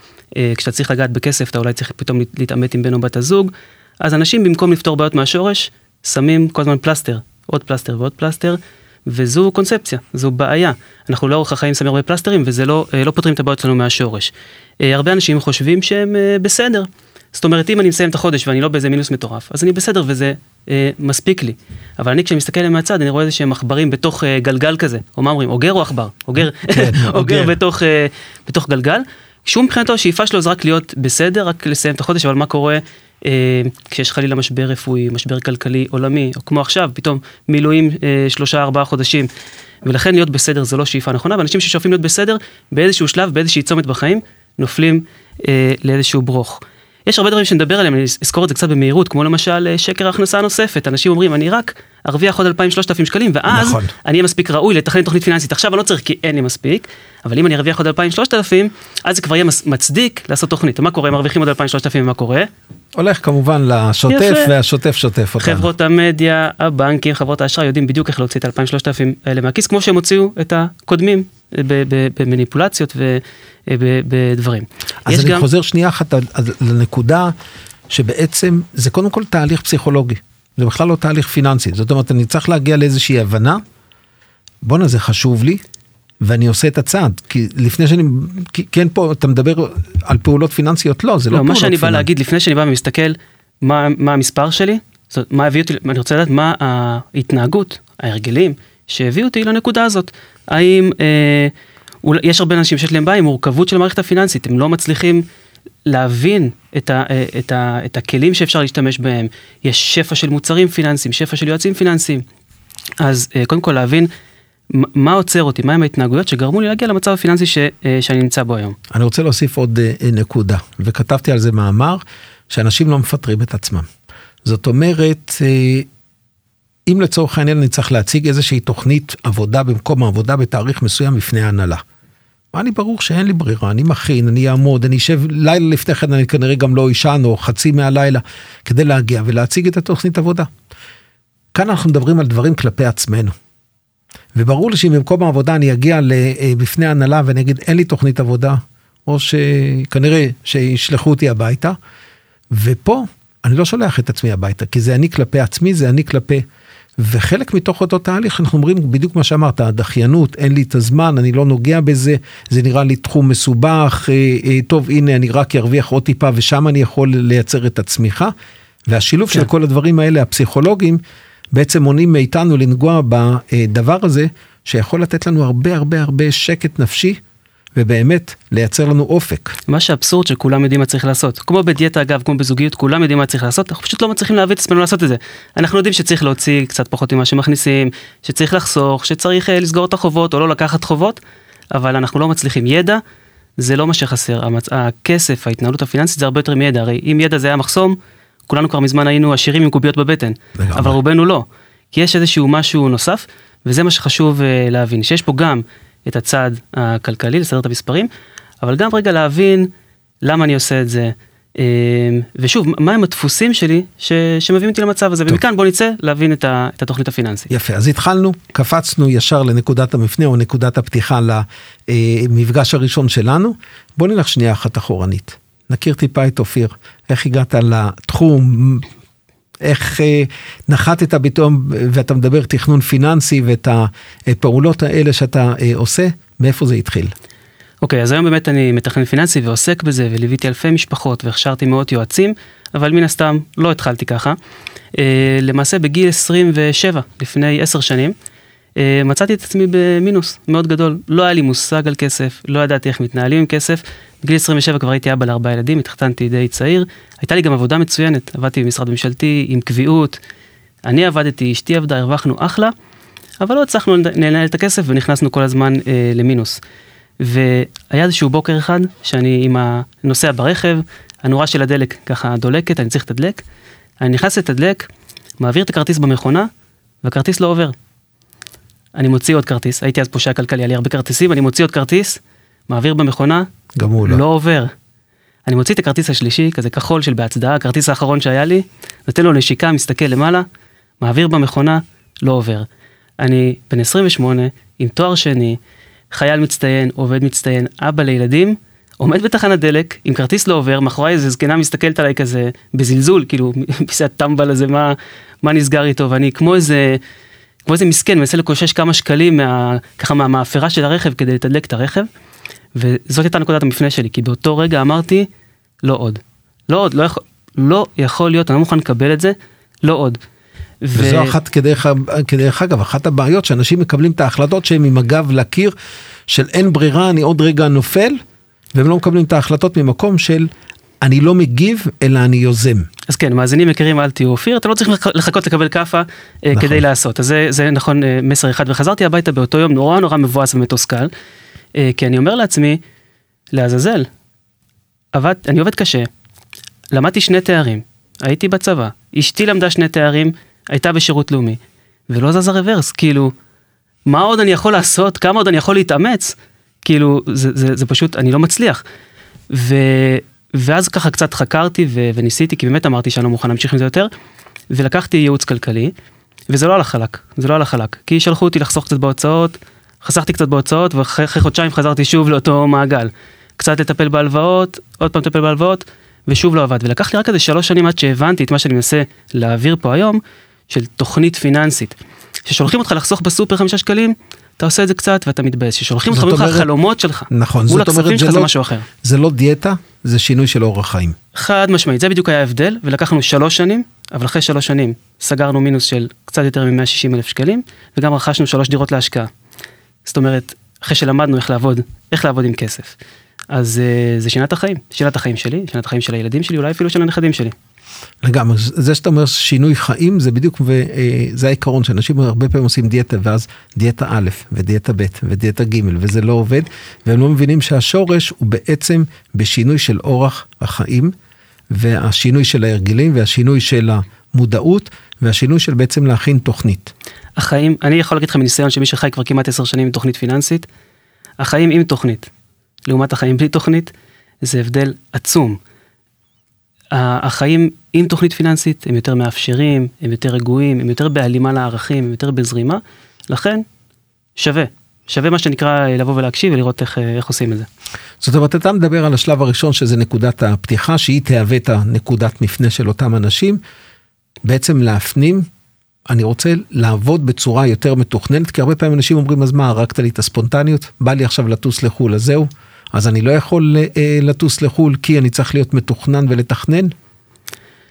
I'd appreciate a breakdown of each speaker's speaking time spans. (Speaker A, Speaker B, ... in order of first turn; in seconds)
Speaker A: 0.4-39.3, 39.8-62.5, 64.1-64.5, 65.4-75.5, 91.3-101.5, 102.0-105.2, 105.9-112.2, 113.0-114.1, 114.7-118.8, 179.7-191.2, 191.7-193.0, 193.6-198.0, 198.5-208.1, 208.6-209.7, 210.2-217.5, 237.8-244.4, 244.9-248.1, 248.8-260.2, 260.9-262.7, 263.4-266.6, 267.2-273.4, 274.0-274.9, 275.4-276.5, 277.0-277.8, 279.0-283.5, 284.0-284.7, 285.5-290.5, 291.0-292.7, 293.2-295.6, 296.1-307.0, 307.7-312.1, 312.8-315.3, 315.8-320.2, 320.8-321.4, 333.1-341.1, 341.8-342.8, 343.5-344.1, 345.1-346.1, 346.9-353.3, 354.1-358.8, 359.5-364.1, 364.7-365.9, 366.5-388.9, 391.4-399.3, 400.1-403.0, 403.5-407.5, 427.4-430.7, 431.4-432.3, 432.9-433.9, 434.4-435.6, 436.9-443.6, 444.4-447.7
Speaker B: 26.7-27.6, 53.5-53.9, 63.0-65.7, 75.1-77.3, 77.9-83.6, 84.6-85.6, 86.2-92.1, 118.9-123.9, 124.5-125.9, 126.9-131.8, 132.5-140.5, 141.5-143.3, 144.3-151.8, 152.5-156.4, 157.0-168.3, 168.9-171.0, 171.5-177.2, 177.8-179.6, 200.6-201.0, 217.5-228.9, 229.6-237.1, 283.8-284.2, 320.9-325.8, 326.3-328.2, 328.7-330.5, 331.0-332.9, 336.5-336.8, 386.1-386.7, 387.3-388.5, 389.0-391.2, 408.2-421.1, 421.7-426.9, 448.2-453.6, 454.4-455.5, 456.1-466.9